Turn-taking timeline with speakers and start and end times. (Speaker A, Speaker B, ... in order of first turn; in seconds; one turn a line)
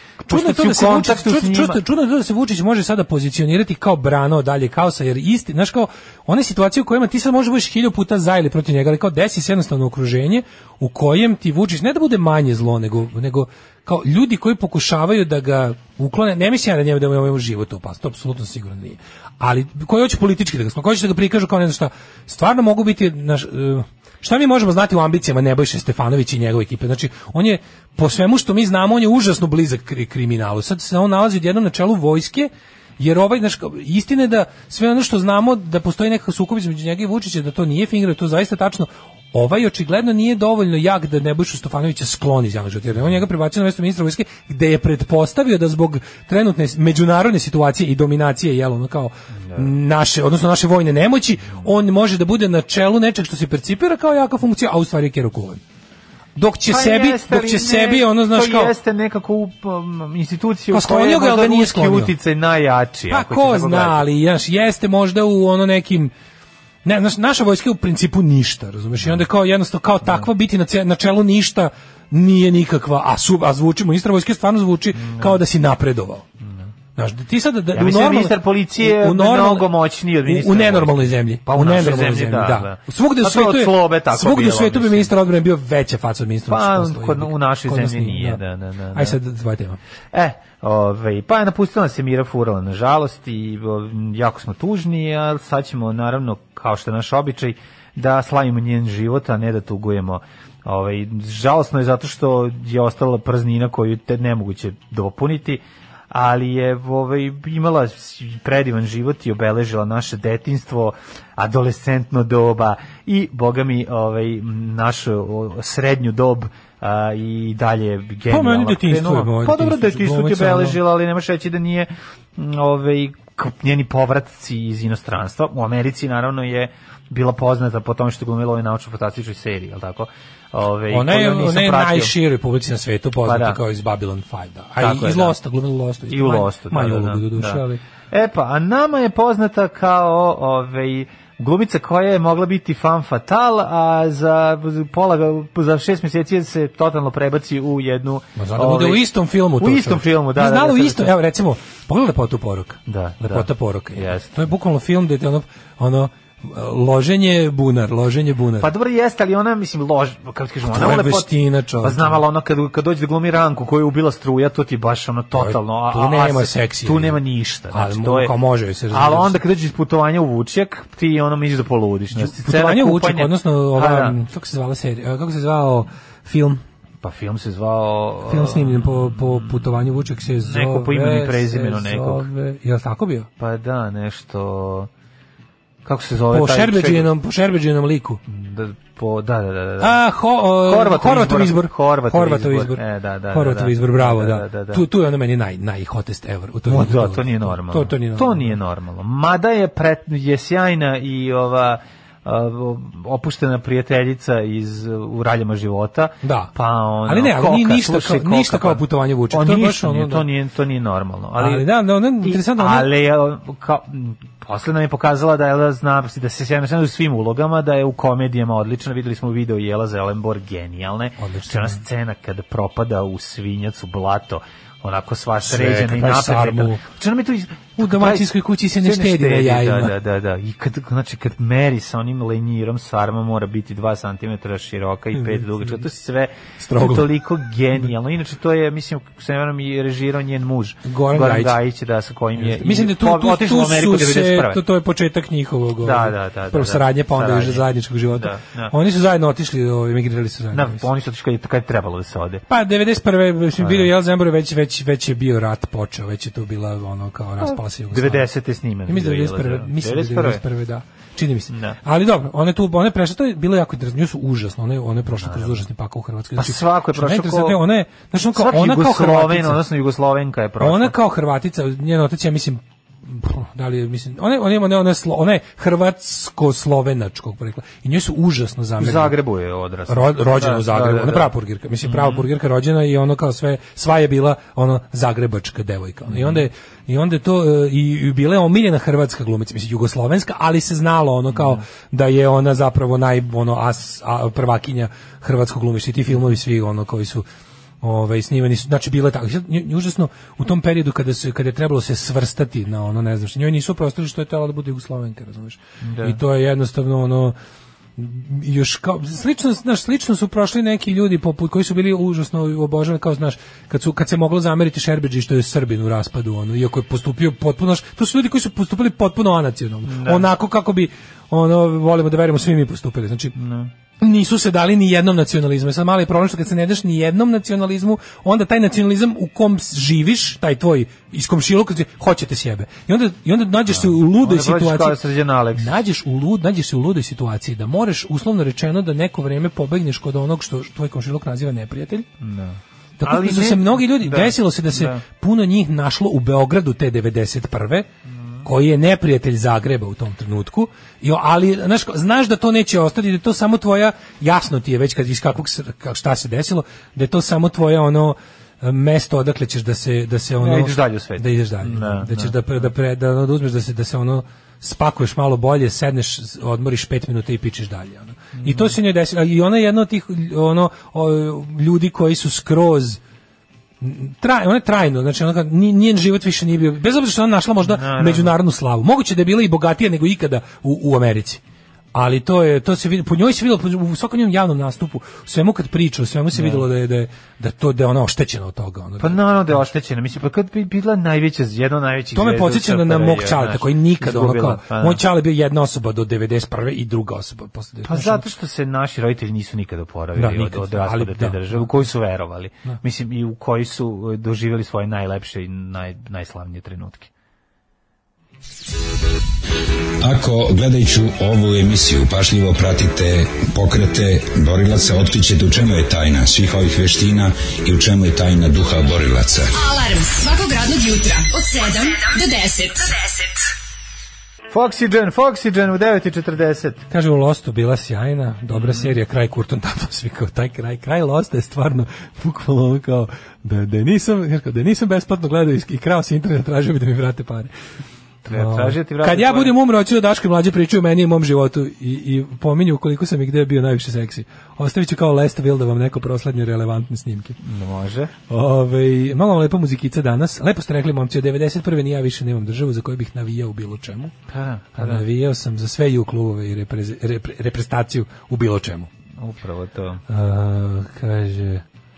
Speaker A: 0.2-55.6
Speaker B: 0.3-1.8
Speaker B: 49.5-49.7
Speaker A: 56.4-58.7
Speaker B: 56.7-64.0
Speaker A: 60.7-62.1
Speaker A: 63.1-66.1
Speaker A: 66.8-76.2
Speaker B: 75.0-75.4
Speaker B: 76.4-76.7
Speaker A: 77.0-79.7
Speaker B: 77.7-85.1
Speaker A: 80.2-88.4
Speaker B: 86.5-89.2
Speaker A: 88.9-89.8
Speaker B: 90.1-132.1
Speaker A: 118.3-120.8
Speaker A: 130.9-137.8
Speaker B: 133.2-133.6
Speaker B: 134.8-135.4
Speaker B: 136.1-151.1
Speaker A: 148.4-158.7
Speaker B: 152.9-154.3
Speaker B: 158.6-168.3
Speaker A: 160.7-162.2
Speaker A: 165.3-167.2
Speaker A: 167.7-169.4
Speaker B: 168.9-174.2
Speaker A: 172.2-176.6
Speaker B: 177.0-179.7
Speaker A: 178.3-183.3
Speaker B: 180.4-182.3
Speaker B: 183.4-184.9
Speaker B: 185.8-187.1
Speaker A: 186.3-188.2
Speaker B: 188.3-190.0
Speaker A: 189.8-198.6
Speaker B: 190.6-194.8
Speaker B: 196.7-211.7
Speaker A: 206.2-206.5
Speaker A: 207.1-210.3
Speaker A: 211.4-212.9
Speaker B: 212.2-244.6
Speaker A: 221.2-221.8
Speaker A: 225.4-226.8
Speaker A: 227.8-229.9
Speaker A: 235.1-235.8
Speaker A: 236.6-237.1
Speaker A: 240.9-241.6
Speaker A: 242.4-250.9
Speaker B: 245.8-248.7
Speaker B: 250.5-252.4
Speaker A: 252.5-258.2
Speaker B: 253.6-253.9
Speaker B: 257.5-260.4
Speaker A: 258.9-269.6
Speaker B: 261.5-261.8
Speaker B: 265.1-265.6
Speaker B: 266.4-267.6
Speaker B: 268.4-270.9
Speaker A: 270.6-279.2
Speaker B: 278.8-281.3
Speaker A: 279.9-297.2
Speaker B: 281.8-282.3
Speaker B: 286.1-286.4
Speaker B: 291.3-291.6
Speaker A: 297.8-307.4
Speaker B: 305.8-306.2
Speaker A: 308.0-323.3
Speaker B: 319.9-320.3
Speaker B: 323.4-323.7
Speaker A: 324.0-335.0
Speaker B: 333.7-335.8
Speaker A: 335.6-342.1
Speaker B: 342.2-345.0
Speaker A: 343.0-347.9
Speaker B: 348.1-348.5
Speaker A: 348.4-373.0
Speaker B: 360.4-362.4
Speaker B: 368.4-368.8
Speaker A: 373.8-381.4
Speaker B: 377.6-378.3
Speaker A: 381.9-389.2
Speaker B: 386.3-386.7
Speaker B: 389.0-395.0
Speaker A: 392.1-398.3
Speaker B: 397.9-407.1
Speaker A: 400.2-401.7
Speaker C: 410.0-419.5
Speaker D: 419.6-423.4
Speaker B: 424.5-426.8
Speaker A: 426.9-437.5
Speaker B: 428.5-428.9
Speaker B: 438.2-439.5
Speaker A: 438.3-447.4
Speaker B: 447.4-448.1
Speaker A: 448.3-454.1
Speaker B: 454.3-455.1
Speaker A: 454.8-458.9
Speaker B: 459.2-460.0
Speaker A: 460.1-461.6